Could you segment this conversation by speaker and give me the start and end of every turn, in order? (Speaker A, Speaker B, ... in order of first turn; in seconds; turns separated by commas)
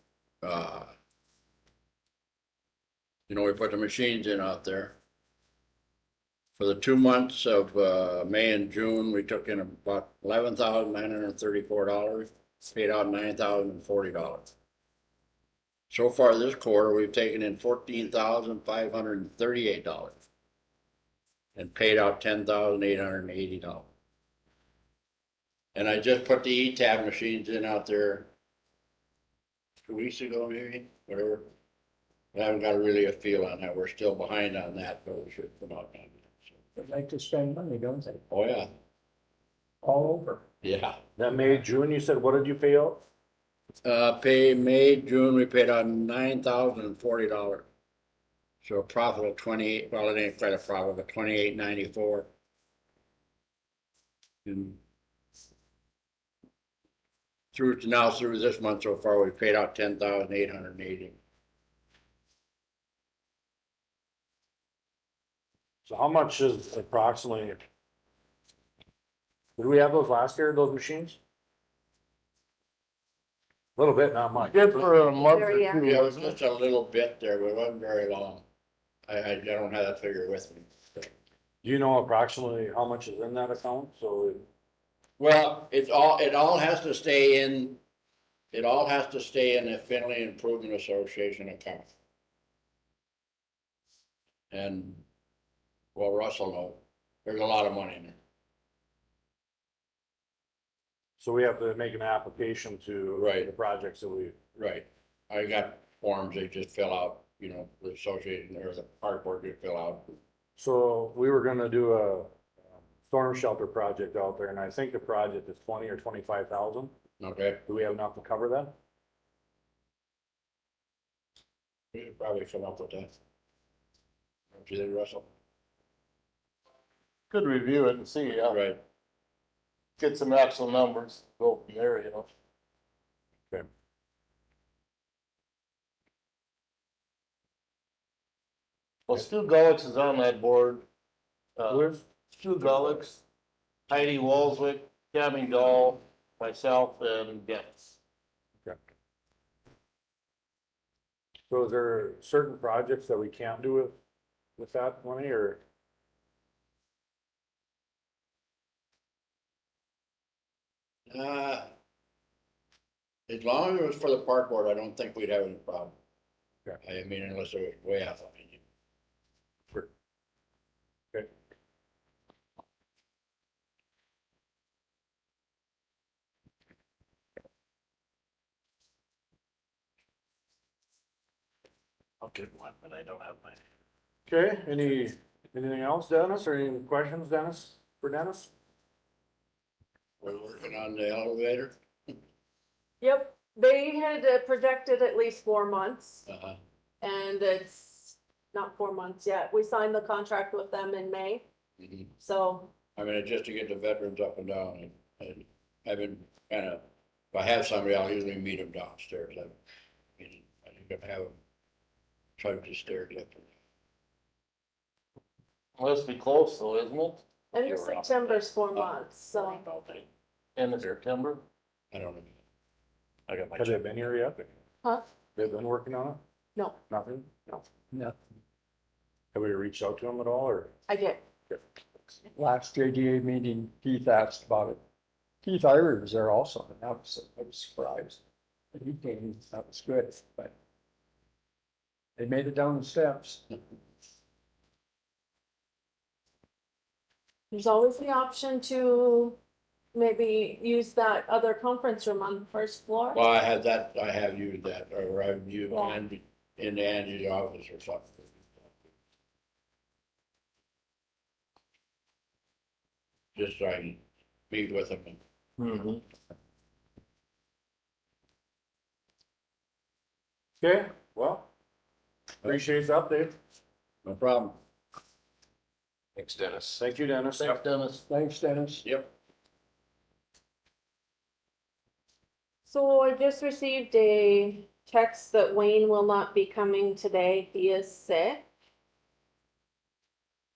Speaker A: 0.4-0.9, Speaker A: 3.3-5.0, Speaker A: 6.6-14.5, Speaker A: 15.9-20.2, Speaker A: 21.6-23.9, Speaker A: 25.8-28.3, Speaker A: 29.9-31.5, Speaker A: 32.3-36.5, Speaker B: 36.8-38.2, Speaker A: 38.3-38.7, Speaker B: 39.8-40.4, Speaker A: 40.6-41.0, Speaker C: 41.2-43.0, Speaker A: 43.8-47.7, Speaker A: 48.6-52.3, Speaker A: 54.5-54.8, Speaker A: 57.5-61.2, Speaker C: 65.9-67.6, Speaker C: 69.6-71.2, Speaker C: 73.8-74.9, Speaker D: 74.4-76.3, Speaker E: 75.3-75.8, Speaker A: 75.6-78.4, Speaker A: 79.1-81.1, Speaker C: 81.6-84.5, Speaker A: 85.2-87.8, Speaker A: 88.5-91.9, Speaker A: 94.5-95.0, Speaker A: 96.0-98.2, Speaker C: 101.2-104.4, Speaker A: 103.2-103.5, Speaker A: 104.6-110.2, Speaker C: 110.6-112.3, Speaker C: 113.0-116.9, Speaker A: 117.2-117.6, Speaker C: 117.7-118.7, Speaker A: 121.9-123.1, Speaker A: 124.5-125.3, Speaker D: 127.3-128.6, Speaker A: 128.5-128.8, Speaker D: 130.0-132.3, Speaker D: 139.1-140.8, Speaker D: 141.6-143.2, Speaker C: 141.7-142.0, Speaker D: 143.9-147.9, Speaker C: 151.5-153.9, Speaker C: 154.6-155.6, Speaker A: 161.1-161.7, Speaker A: 163.3-165.9, Speaker A: 166.8-168.6, Speaker D: 182.2-183.5, Speaker C: 184.3-188.5, Speaker A: 190.2-191.7, Speaker E: 193.0-196.2, Speaker A: 196.3-196.6, Speaker E: 197.0-201.4, Speaker A: 201.8-202.1, Speaker E: 202.2-202.7, Speaker A: 203.0-209.6, Speaker A: 210.2-211.3, Speaker A: 212.4-213.5, Speaker D: 215.8-217.2, Speaker E: 217.5-219.6, Speaker D: 220.6-221.4, Speaker A: 221.9-222.3, Speaker A: 223.3-223.7, Speaker C: 223.6-224.4, Speaker C: 225.4-226.2, Speaker C: 226.9-227.6, Speaker C: 229.3-230.7, Speaker E: 230.9-231.2, Speaker B: 232.3-234.8, Speaker B: 235.4-238.2, Speaker B: 238.7-240.5, Speaker B: 242.2-243.5, Speaker E: 247.5-249.4, Speaker E: 249.9-253.2, Speaker A: 253.1-258.3, Speaker A: 263.4-265.2, Speaker D: 265.6-266.0, Speaker C: 270.6-271.5, Speaker C: 272.4-273.4, Speaker A: 274.0-274.6, Speaker D: 276.2-276.6, Speaker C: 276.8-277.6, Speaker D: 277.4-278.0, Speaker B: 278.0-278.9, Speaker A: 278.8-279.1, Speaker E: 282.7-288.4